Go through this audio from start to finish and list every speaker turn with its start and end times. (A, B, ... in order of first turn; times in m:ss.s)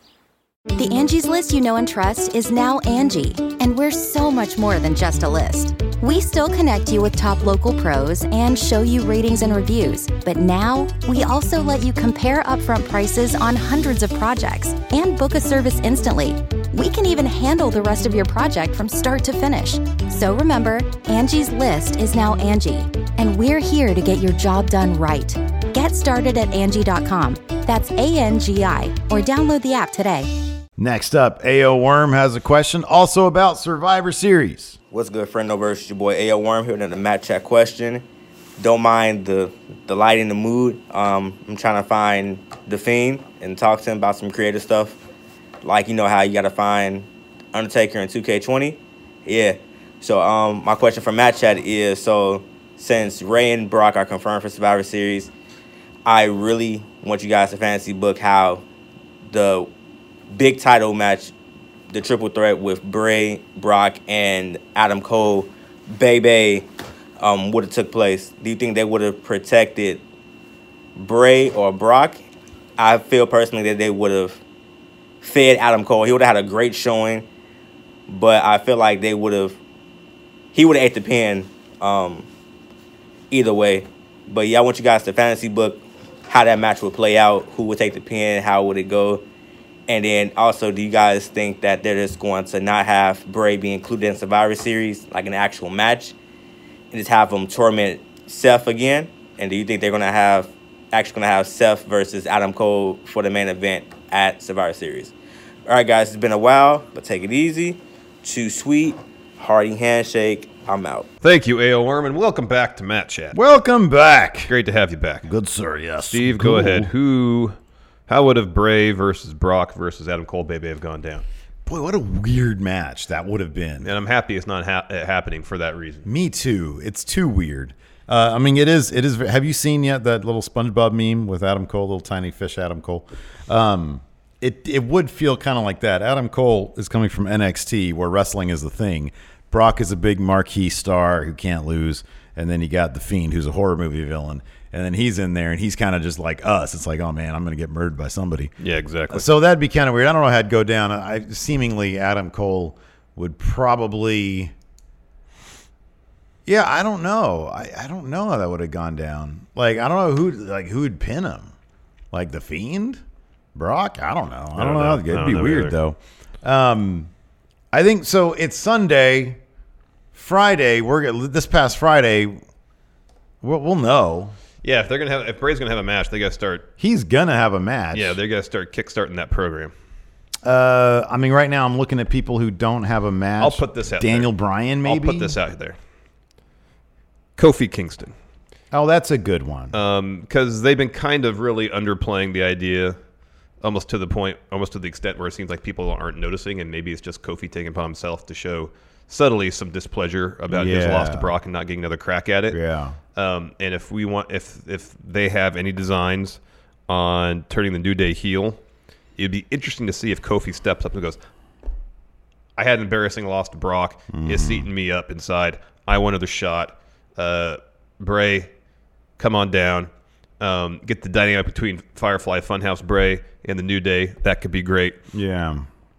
0:00.8-0:30.3 A
0:30.8-0:34.8 B
0:34.9-0:38.1 C
0:38.6-0:45.0 C
0:45.6-0:55.3 C
0:56.1-0:58.6 C
0:59.3-0:59.7 C
1:00.3-1:01.3 C
1:01.9-1:06.7 C
1:07.2-1:10.0 C
1:11.0-1:12.2 C
1:12.8-1:14.4 C
1:15.2-1:17.2 C
1:18.1-1:19.6 C
1:20.5-1:22.3 C
1:23.3-1:29.2 C
1:29.9-1:36.1 C
1:36.9-1:45.1 C
1:45.7-1:51.1 C
1:51.2-1:53.4 D
1:53.3-1:54.5 B
1:54.5-1:55.3 D
1:55.2-1:56.9 B
1:56.0-1:57.6 D
1:58.1-2:01.2 D
2:01.6-2:03.9 B
2:03.8-2:06.1 D
2:06.0-2:28.5 B
2:28.6-2:29.3 D
2:29.1-2:34.5 B
2:36.4-2:41.5 B
2:42.1-2:43.0 B
2:43.6-2:47.1 B
2:44.6-2:45.8 D
2:47.7-2:49.4 B
2:50.1-2:52.4 B
2:53.4-2:54.4 B
2:54.6-2:56.7 D
2:56.8-2:58.2 B
2:57.9-2:59.7 D
3:00.4-3:05.4 B
3:03.4-3:04.3 D
3:04.8-3:05.8 D
3:07.4-3:08.1 D
3:08.7-3:09.8 B
3:09.7-3:13.0 D
3:13.6-3:22.6 D
3:20.5-3:21.3 B
3:22.5-3:23.0 B
3:23.1-3:28.6 D
3:29.2-3:31.2 D
3:32.6-3:38.5 D
3:34.1-3:34.7 B
3:39.2-3:45.0 D
3:45.1-3:45.6 B